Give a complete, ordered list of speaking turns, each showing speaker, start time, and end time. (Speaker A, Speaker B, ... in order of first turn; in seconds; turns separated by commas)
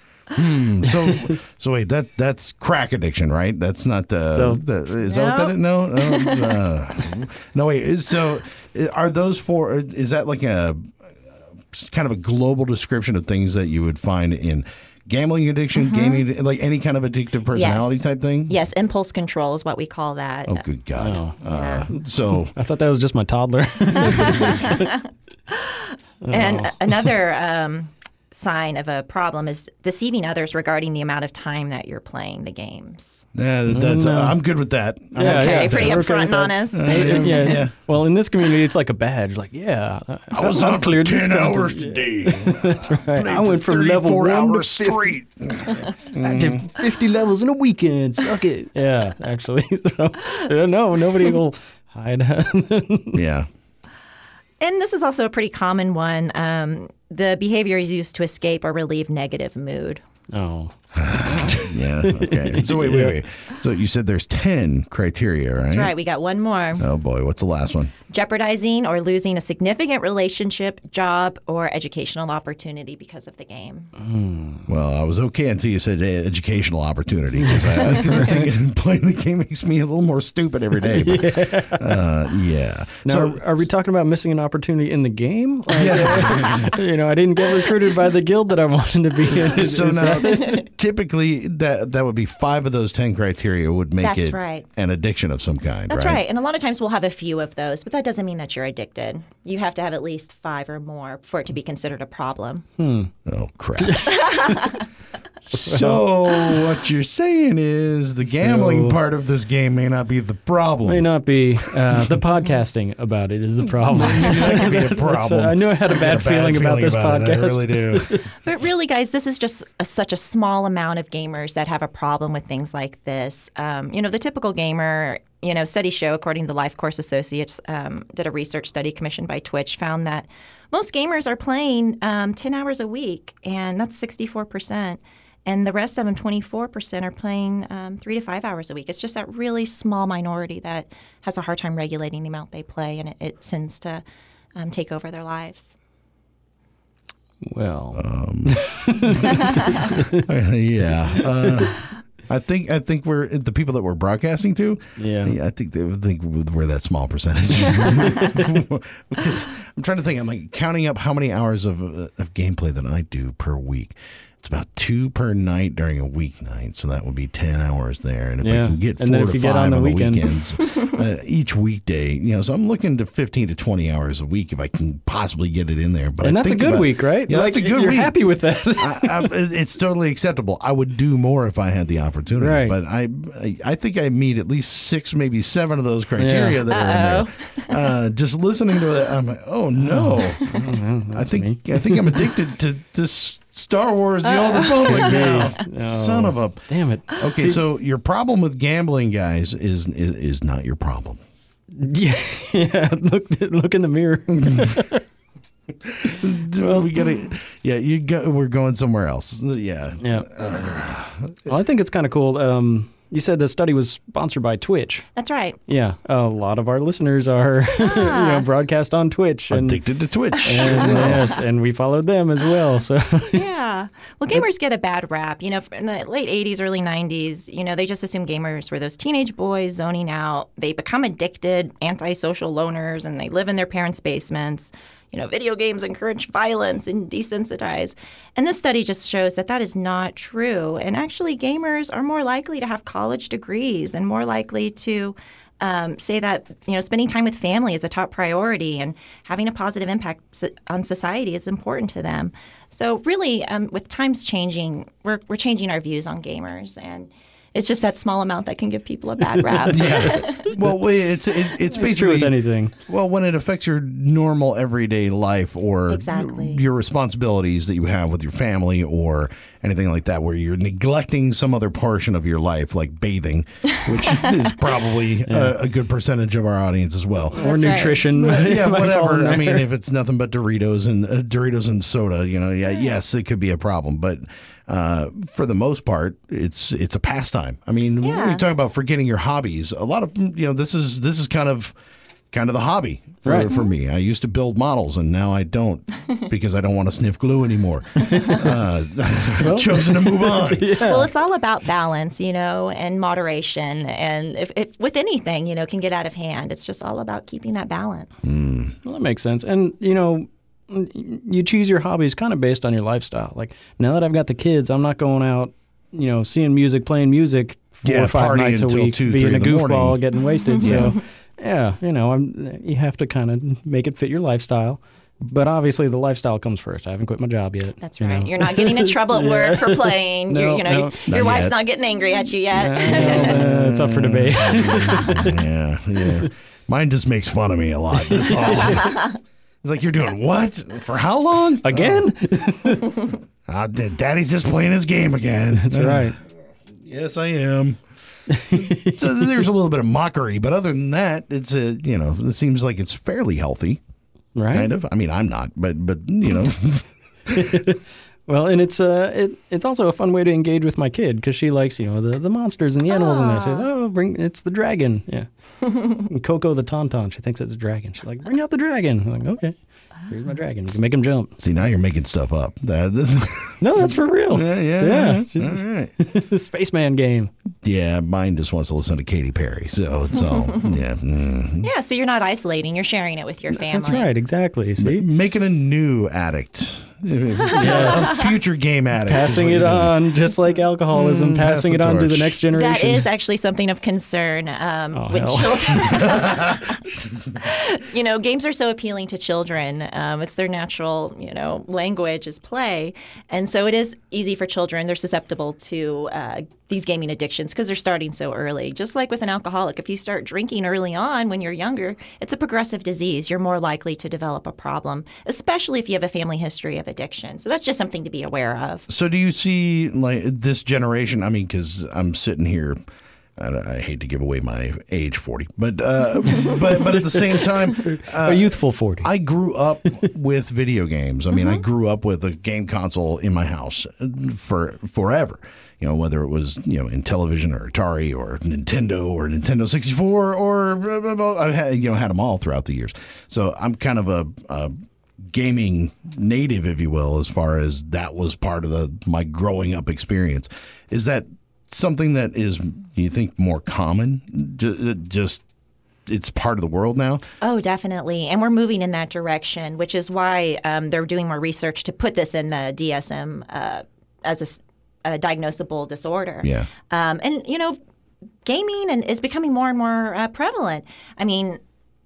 Speaker A: 0.3-10.9, Speaker B: 4.3-4.6, Speaker C: 5.0-6.6, Speaker A: 11.7-18.6, Speaker C: 15.8-16.2, Speaker C: 17.5-20.6, Speaker A: 20.5-22.5, Speaker B: 21.0-21.4, Speaker C: 21.5-21.9, Speaker B: 22.5-24.9, Speaker C: 24.0-33.2, Speaker B: 26.2-27.0, Speaker A: 33.3-36.0, Speaker B: 33.7-34.4, Speaker B: 35.1-45.1, Speaker C: 35.2-37.6, Speaker A: 36.7-37.7, Speaker A: 40.3-46.6, Speaker B: 46.1-53.2, Speaker A: 53.1-53.5, Speaker C: 54.6-60.0, Speaker B: 60.3-63.2, Speaker A: 60.9-65.9, Speaker C: 65.7-66.8, Speaker A: 66.8-67.9, Speaker C: 68.1-73.9, Speaker B: 74.0-74.7, Speaker A: 74.7-83.6, Speaker B: 77.5-78.4, Speaker B: 80.9-82.0, Speaker B: 83.0-90.6, Speaker A: 85.7-86.7, Speaker A: 89.3-96.2, Speaker C: 90.2-90.6, Speaker C: 94.0-94.7, Speaker C: 95.9-102.6, Speaker B: 102.8-103.1, Speaker A: 103.2-104.4, Speaker B: 103.8-104.7, Speaker C: 104.1-104.8, Speaker A: 105.5-111.1, Speaker B: 105.5-106.6, Speaker B: 108.3-109.0, Speaker B: 110.8-118.2, Speaker A: 111.6-112.1, Speaker A: 113.9-118.1, Speaker C: 118.4-144.0, Speaker C: 144.6-145.7, Speaker B: 147.4-150.2, Speaker A: 147.9-178.1, Speaker C: 149.4-149.8, Speaker B: 155.0-155.3, Speaker B: 168.4-170.3, Speaker B: 176.2-179.3, Speaker A: 178.8-190.6, Speaker B: 182.4-182.7, Speaker B: 186.2-186.7, Speaker C: 186.7-187.9, Speaker B: 189.8-192.2, Speaker A: 191.1-196.7, Speaker C: 194.3-195.3, Speaker B: 194.8-197.6, Speaker A: 197.2-201.2, Speaker B: 201.7-205.0, Speaker A: 204.4-204.8, Speaker A: 205.8-211.5, Speaker B: 206.6-206.9, Speaker B: 210.0-210.3, Speaker B: 211.5-215.0, Speaker C: 215.2-215.6, Speaker B: 215.7-219.8, Speaker C: 217.8-218.4, Speaker A: 219.5-221.3, Speaker B: 220.4-223.4, Speaker C: 220.5-221.2, Speaker C: 223.3-260.6, Speaker A: 259.7-291.7, Speaker B: 261.6-262.7, Speaker C: 265.9-266.6, Speaker B: 275.3-275.5, Speaker B: 277.3-279.7, Speaker C: 277.4-278.0, Speaker C: 288.0-288.4, Speaker A: 292.3-300.8, Speaker B: 293.2-293.5, Speaker B: 298.1-298.4, Speaker B: 299.4-301.1, Speaker C: 300.8-308.2, Speaker A: 308.2-308.8, Speaker B: 308.8-331.0, Speaker A: 317.8-320.0, Speaker C: 320.6-320.8, Speaker A: 320.6-320.9, Speaker C: 327.8-333.4, Speaker A: 331.1-331.5, Speaker B: 332.5-335.4, Speaker A: 332.9-342.1, Speaker B: 338.2-338.8, Speaker B: 341.6-343.1, Speaker A: 343.4-346.1, Speaker B: 345.5-346.2, Speaker A: 346.8-347.8, Speaker B: 348.3-349.4, Speaker A: 348.5-353.8, Speaker B: 354.3-354.7, Speaker A: 354.5-357.6, Speaker B: 357.3-369.6, Speaker C: 362.9-363.6, Speaker B: 370.1-371.4, Speaker A: 371.4-375.9, Speaker B: 373.6-377.3, Speaker A: 377.6-381.7, Speaker C: 380.2-380.8, Speaker C: 381.6-384.1, Speaker B: 383.7-385.1, Speaker A: 384.8-389.9, Speaker C: 387.5-387.8, Speaker B: 387.5-388.2, Speaker B: 389.0-393.1, Speaker A: 390.9-392.4, Speaker C: 392.5-418.9, Speaker B: 394.9-396.1, Speaker A: 396.2-396.6, Speaker A: 418.9-422.8, Speaker A: 423.4-455.4, Speaker B: 427.8-429.1, Speaker A: 456.1-457.2, Speaker C: 457.4-467.8, Speaker A: 466.4-466.7, Speaker C: 468.4-471.6